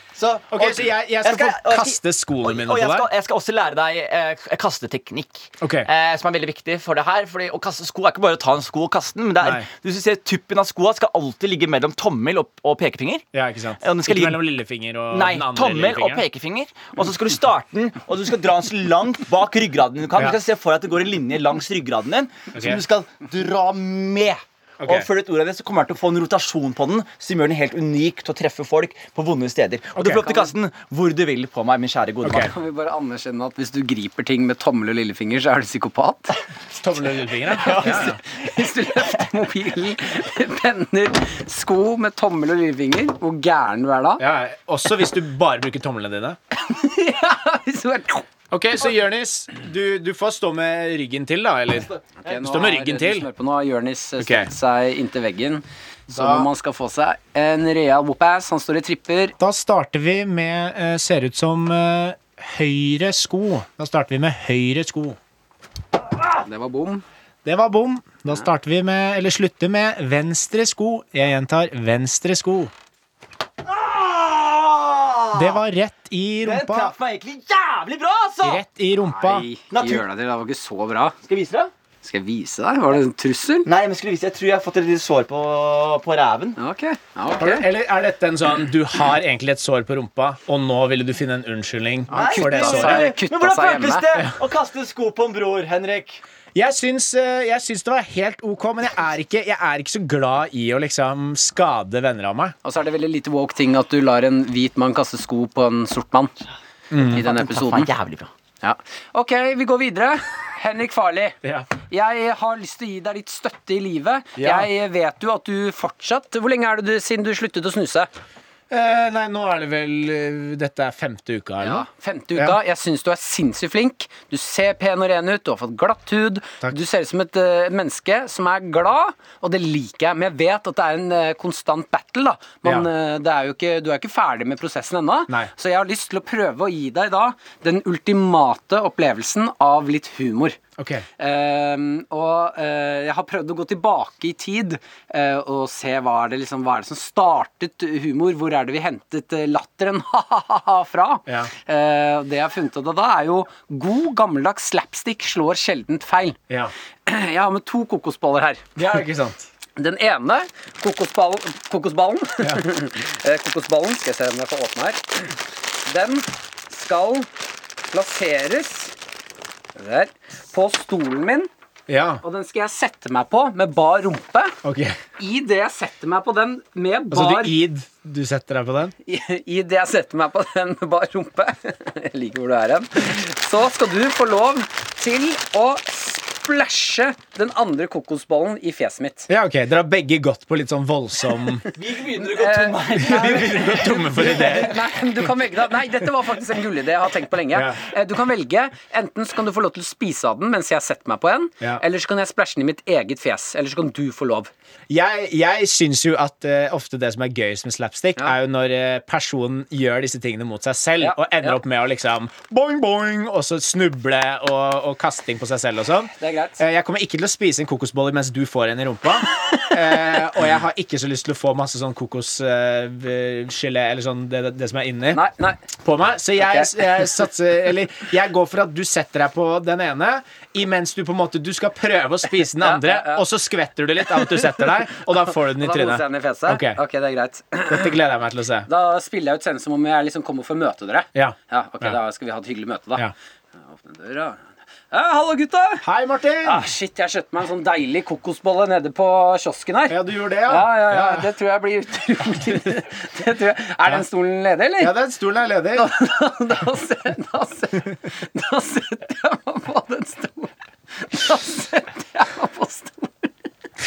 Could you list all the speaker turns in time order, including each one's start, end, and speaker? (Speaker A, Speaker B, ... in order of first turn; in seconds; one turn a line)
Speaker A: 0.1-13.2
Speaker B: 0.5-3.1
Speaker B: 5.6-5.9
Speaker B: 9.4-9.7
Speaker B: 13.3-16.2
Speaker A: 13.8-14.5
Speaker A: 15.1-32.5
Speaker B: 22.5-22.8
Speaker B: 24.8-25.1
Speaker B: 29.9-30.2
Speaker B: 32.2-32.5
Speaker C: 32.4-36.3
Speaker B: 36.8-38.2
Speaker A: 37.6-38.2
Speaker C: 37.7-44.2
Speaker B: 44.2-46.4
Speaker C: 46.5-48.2
Speaker B: 48.5-53.3
Speaker C: 52.2-59.3
Speaker B: 54.2-54.5
Speaker B: 56.1-56.5
Speaker B: 59.4-65.2
Speaker C: 66.4-67.0
Speaker B: 67.4-72.7
Speaker A: 73.6-75.6
Speaker B: 75.3-76.9
Speaker A: 76.4-78.6
Speaker B: 78.4-79.5
Speaker C: 79.1-81.2
Speaker A: 79.7-80.0
Speaker A: 81.3-81.7
Speaker C: 82.0-83.7
Speaker A: 83.7-86.6
Speaker C: 86.6-87.7
Speaker B: 87.4-93.1
Speaker C: 92.1-94.1
Speaker A: 92.1-96.2
Speaker B: 96.5-102.5
Speaker C: 102.6-106.3
Speaker B: 106.9-107.2
Speaker C: 107.1-107.9
Speaker A: 107.1-108.3
Speaker C: 108.6-111.3
Speaker B: 111.4-111.7
Speaker C: 111.9-118.1
Speaker B: 114.4-114.7
Speaker B: 118.7-122.5
Speaker C: 121.6-140.6
Speaker B: 140.8-141.0
Speaker C: 141.2-156.4
Speaker B: 151.3-151.5
Speaker C: 157.1-158.7
Speaker B: 158.8-159.4
Speaker C: 159.8-167.3
Speaker C: 167.9-168.9
Speaker C: 169.8-171.5
Speaker B: 171.9-172.2
Speaker C: 172.2-174.5
Speaker B: 174.6-175.0
Speaker C: 175.2-177.5
Speaker B: 177.1-178.9
Speaker C: 179.1-189.3
Speaker B: 189.3-191.6
Speaker A: 191.7-194.7
Speaker C: 192.2-204.5
Speaker B: 193.0-194.8
Speaker B: 197.5-197.8
Speaker B: 204.9-225.2
Speaker C: 211.0-211.6
Speaker C: 216.2-216.6
Speaker C: 225.1-225.6
Speaker B: 225.8-236.8
Speaker C: 226.4-226.7
Speaker C: 232.6-233.2
Speaker C: 234.1-235.0
Speaker C: 235.5-237.9
Speaker B: 237.7-238.7
Speaker C: 238.7-243.1
Speaker B: 241.1-242.0
Speaker C: 243.7-244.4
Speaker C: 244.9-245.8
Speaker B: 245.8-246.7
Speaker C: 246.4-254.9
Speaker B: 249.9-251.3
Speaker B: 254.8-255.9
Speaker C: 255.8-263.3